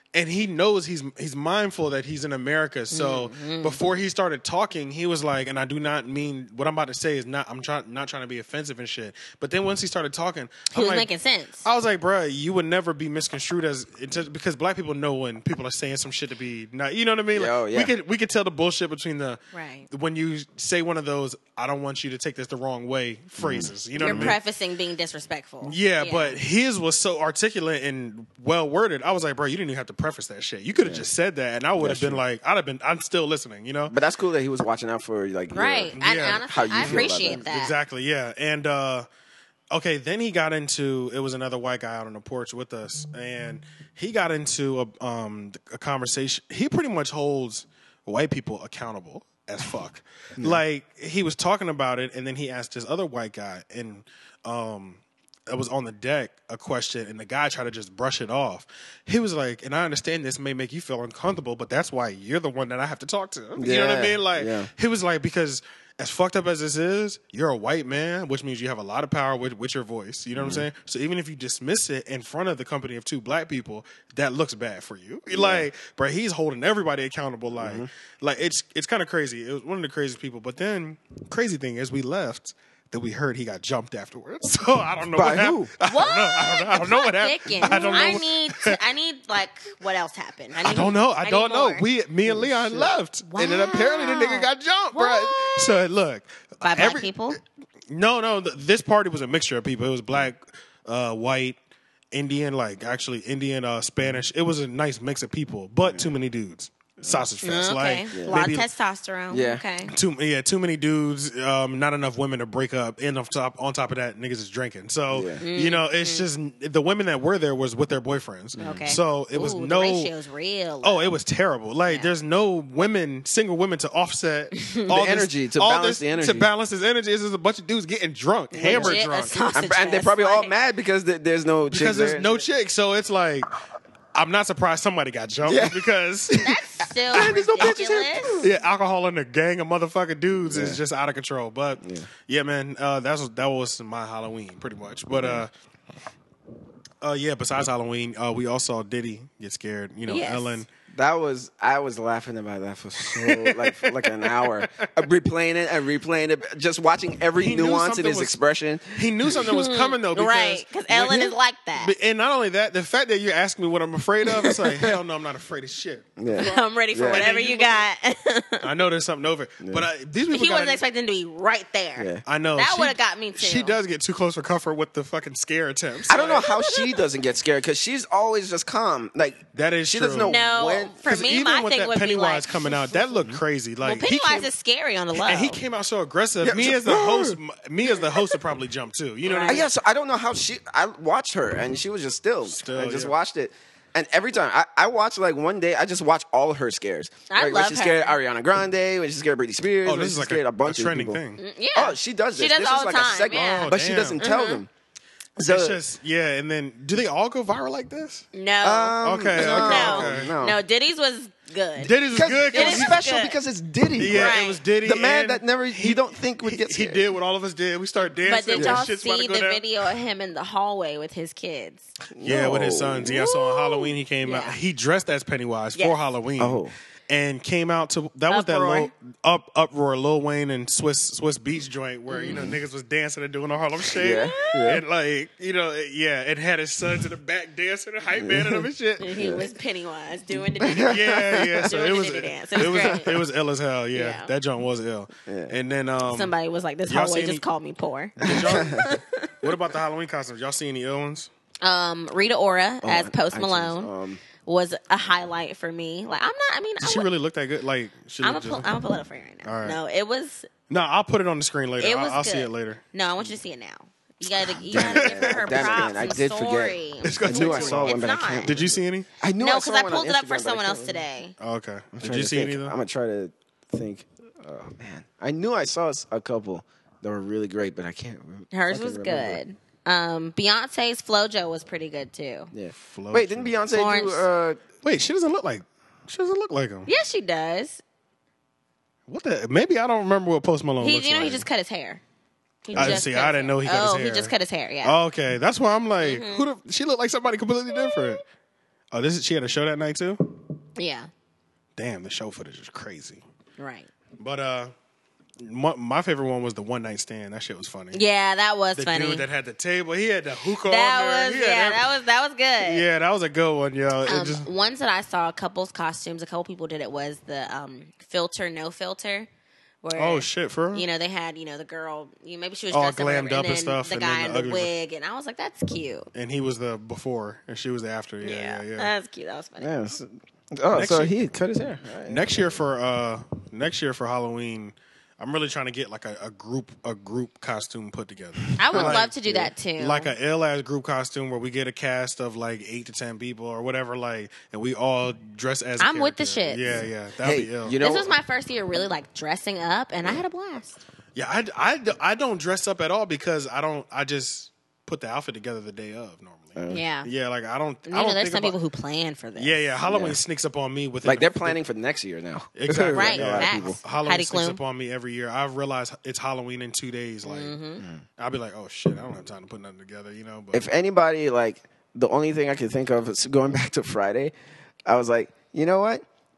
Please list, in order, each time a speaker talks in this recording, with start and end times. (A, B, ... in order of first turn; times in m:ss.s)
0:00.1-0:11.1 A
0:02.9-0:03.8 B
0:10.7-0:11.6 B
0:11.6-0:24.4 A
0:17.3-0:17.9 C
0:19.5-0:19.9 B
0:23.4-0:24.4 C
0:24.0-0:26.4 B
0:25.6-0:33.9 A
0:30.7-0:31.1 C
0:31.8-0:32.2 C
0:33.9-0:37.4 C
0:35.5-0:37.7 B
0:35.9-0:39.1 A
0:39.7-1:28.8 A
1:03.6-1:04.7 C
1:10.4-1:10.6 C
1:15.3-1:15.6 C
1:17.6-1:17.9 C
1:25.1-1:25.7 C
1:25.8-1:31.8 B
1:27.6-1:28.2 C
1:30.6-1:37.4 A
1:32.2-1:32.9 C
1:33.3-1:35.8 B
1:36.6-1:37.4 B
1:37.9-1:41.6 A
1:42.1-1:48.6 A
1:45.8-1:46.1 C
1:47.0-1:47.3 C
1:47.4-1:49.9 B
1:48.1-1:48.4 C
1:49.3-1:49.6 C
1:49.9-2:00.1 A
1:55.1-1:55.4 C
1:55.4-1:56.3 B
1:58.6-1:58.9 C
1:58.6-2:01.1 B
2:00.8-2:09.4 A
2:01.8-2:02.1 B
2:04.6-2:04.8 B
2:04.9-2:06.5 C
2:08.5-2:10.5 B
2:08.6-2:09.0 C
2:09.5-2:12.4 C
2:11.7-2:13.5 A
2:14.1-2:16.6 A
2:15.4-2:15.8 C
2:16.4-2:18.4 B
2:17.1-2:17.8 A
2:17.1-2:18.5 C
2:18.4-2:25.5 A
2:20.4-2:20.8 C
2:21.8-2:22.1 C
2:25.1-2:25.4 C
2:27.0-2:30.7 A
2:30.1-2:30.6 B
2:30.9-2:39.0 C
2:33.0-2:34.9 A
2:37.4-2:38.4 A
2:39.0-2:41.2 A
2:39.3-2:41.9 B
2:41.8-2:46.1 A
2:46.2-2:47.2 C
2:46.4-2:48.7 B
2:47.0-2:47.8 A
2:48.6-2:50.8 A
2:49.6-2:49.9 C
2:50.3-2:53.7 B
2:52.0-2:52.2 C
2:52.2-2:56.4 A
2:56.1-3:01.0 C
2:56.1-2:57.0 B
2:59.5-3:00.3 A
3:00.2-3:03.0 B
3:01.0-3:04.5 A
3:03.8-3:05.6 B
3:05.1-3:09.6 A
3:06.4-3:07.4 C
3:09.2-3:09.6 B
3:09.4-3:21.2 C
3:12.4-3:13.1 A
3:17.3-3:18.2 B
3:19.8-3:21.4 A
3:21.4-3:24.6 B
3:21.7-3:24.7 C
3:23.3-3:24.2 A
3:25.4-3:25.8 C
3:25.4-3:28.2 A
3:28.3-3:31.9 B
3:28.6-3:30.6 C
3:29.0-3:30.3 A
3:31.8-3:33.0 A
3:32.1-3:37.0 C
3:32.5-3:33.4 B
3:34.0-3:39.6 A
3:34.1-3:34.6 B
3:38.2-3:41.9 B
3:38.5-3:38.9 C
3:42.1-3:43.2 C
3:42.2-3:59.1 A
3:43.0-3:44.6 B
3:46.4-3:46.7 C
3:48.3-3:48.9 B
3:52.1-3:52.4 B
3:52.3-3:52.6 C
3:54.0-3:54.8 C
3:58.2-3:59.4 C
3:59.0-4:01.0 B
4:00.6-4:01.7 C
4:00.8-4:06.3 A
4:01.6-4:03.2 B
4:03.9-4:04.3 B
4:05.2-4:05.5 C
4:06.0-4:09.5 B
4:06.9-4:07.4 A
4:08.2-4:08.8 C
4:08.2-4:11.3 A
4:11.6-4:13.9 B
4:12.8-4:14.2 C
4:14.4-4:17.1 B
4:16.8-4:18.7 A
4:18.2-4:20.5 B
4:19.4-4:19.8 A
4:20.7-4:22.8 A
4:21.8-4:28.6 B
4:24.6-4:31.0 C
4:24.7-4:26.1 A
4:27.0-4:29.1 A
4:29.4-4:31.3 B
4:31.4-4:32.7 A
4:31.9-4:39.4 C
4:38.5-4:42.5 B
4:42.5-4:44.6 C
4:42.7-4:43.6 A
4:43.7-4:44.2 B
4:44.8-4:46.9 A
4:46.8-4:47.8 B
4:49.1-4:51.5 A
4:50.8-4:52.0 B
4:52.6-4:54.9 B
4:52.7-4:53.0 C
4:52.7-4:54.3 A
4:54.8-4:58.2 A
4:56.0-4:56.4 B
4:57.7-4:58.2 B
4:58.9-5:00.2 A
5:00.8-5:01.1 B
5:01.8-5:03.2 A
5:03.6-5:03.9 B
5:04.2-5:04.7 A
5:05.4-5:08.0 A
5:07.9-5:09.2 B
5:08.8-5:11.9 A
5:10.6-5:12.8 B
5:12.6-5:14.4 A
5:14.0-5:19.3 B
5:19.8-5:26.1 B
5:20.0-5:20.8 A
5:22.7-5:24.7 A
5:26.1-5:28.9 A
5:28.2-5:29.7 B
5:29.6-5:32.4 C
5:30.7-5:31.1 A
5:32.0-5:39.1 A
5:38.6-5:40.1 B
5:38.6-5:39.5 C
5:39.8-5:47.8 A
5:45.8-5:46.7 B
5:46.6-5:48.1 C
5:47.8-5:50.8 B
5:51.1-5:58.6 A
5:56.6-5:56.8 C
5:56.7-5:57.1 B
5:57.9-5:59.7 B
5:59.4-6:01.6 A
5:59.8-6:00.2 C
6:01.0-6:03.8 C
6:02.6-6:07.6 A
6:02.9-6:04.6 B
6:07.2-6:07.8 B
6:08.2-6:10.7 A
6:10.5-6:14.3 C
6:14.8-6:16.0 C